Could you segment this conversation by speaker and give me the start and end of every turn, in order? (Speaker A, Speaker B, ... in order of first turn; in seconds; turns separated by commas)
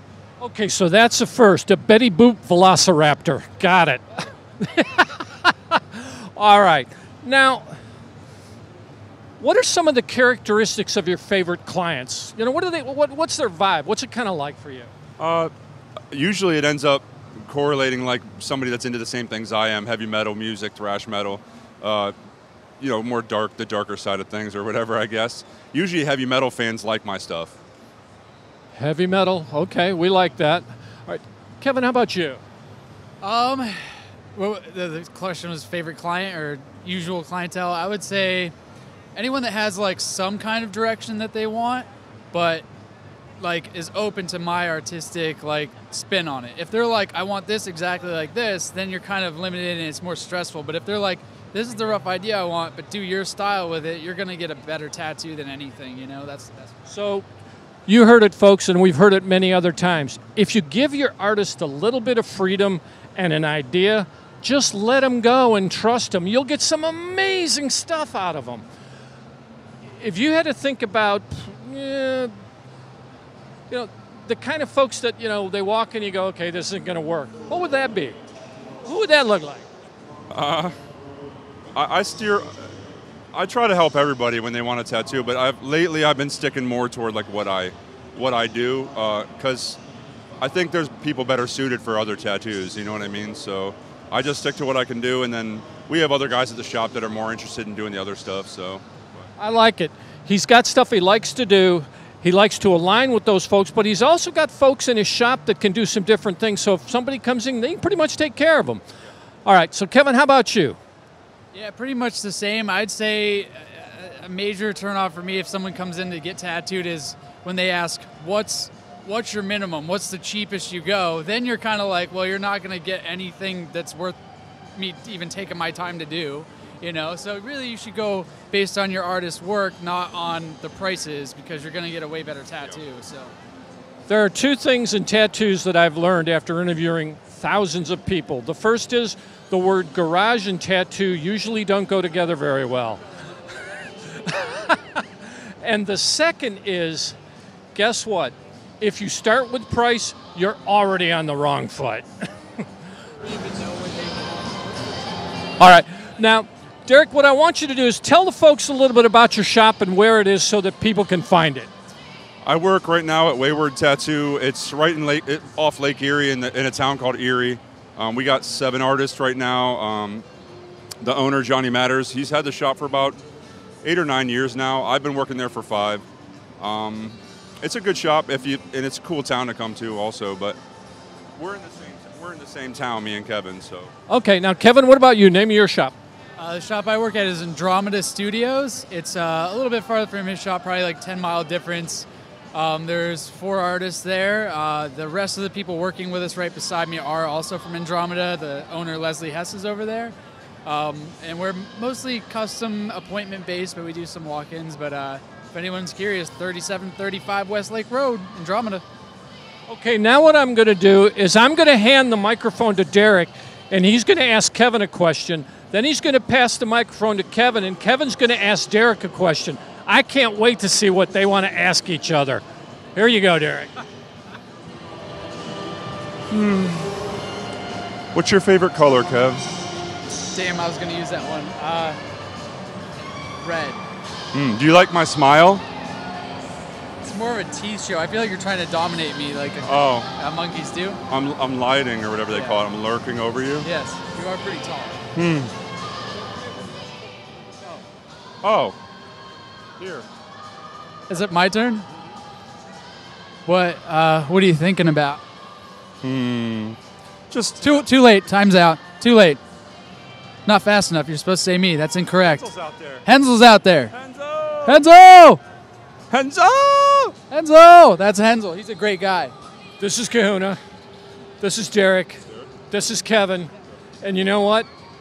Speaker A: 0.4-7.8, Speaker A: 9.4-14.9, Speaker B: 15.2-15.5, Speaker B: 16.1-22.1, Speaker B: 22.8-27.6, Speaker A: 28.7-32.4, Speaker C: 33.2-38.5, Speaker C: 39.1-42.6, Speaker C: 43.4-56.9, Speaker A: 56.9-57.2, Speaker A: 57.9-68.6, Speaker A: 70.0-72.3, Speaker A: 73.7-78.2, Speaker A: 78.8-79.6, Speaker B: 80.3-80.7, Speaker B: 81.7-82.6, Speaker B: 83.3-89.8, Speaker B: 90.4-98.8, Speaker A: 99.4-108.8, Speaker A: 109.4-110.8, Speaker C: 111.5-124.2, Speaker C: 124.8-133.3, Speaker A: 134.1-143.0, Speaker A: 144.1-147.2, Speaker A: 147.7-152.3, Speaker C: 153.2-154.6, Speaker A: 155.6-161.7, Speaker B: 162.4-170.2, Speaker B: 171.0-173.2, Speaker B: 173.8-176.0, Speaker B: 176.6-180.6, Speaker B: 181.3-183.9, Speaker A: 184.1-185.9, Speaker C: 186.4-208.8, Speaker A: 209.7-222.4, Speaker A: 222.9-223.8, Speaker B: 226.3-226.9, Speaker B: 228.1-229.4, Speaker C: 230.3-232.0, Speaker C: 233.4-233.8, Speaker B: 234.3-235.6, Speaker C: 237.0-241.0, Speaker B: 239.6-240.1, Speaker B: 241.1-243.7, Speaker C: 242.3-242.6, Speaker C: 243.6-245.0, Speaker B: 245.1-245.5, Speaker B: 248.4-248.7, Speaker B: 249.8-250.0, Speaker C: 251.1-251.9, Speaker C: 253.4-255.2, Speaker B: 256.0-256.8, Speaker B: 257.3-257.9, Speaker C: 257.6-259.4, Speaker C: 260.4-262.5, Speaker B: 262.2-263.1, Speaker C: 263.0-263.9, Speaker B: 263.9-264.8, Speaker C: 264.6-265.4, Speaker B: 266.1-267.1, Speaker C: 267.3-269.3, Speaker A: 269.8-270.6, Speaker A: 271.4-273.5, Speaker A: 274.0-274.7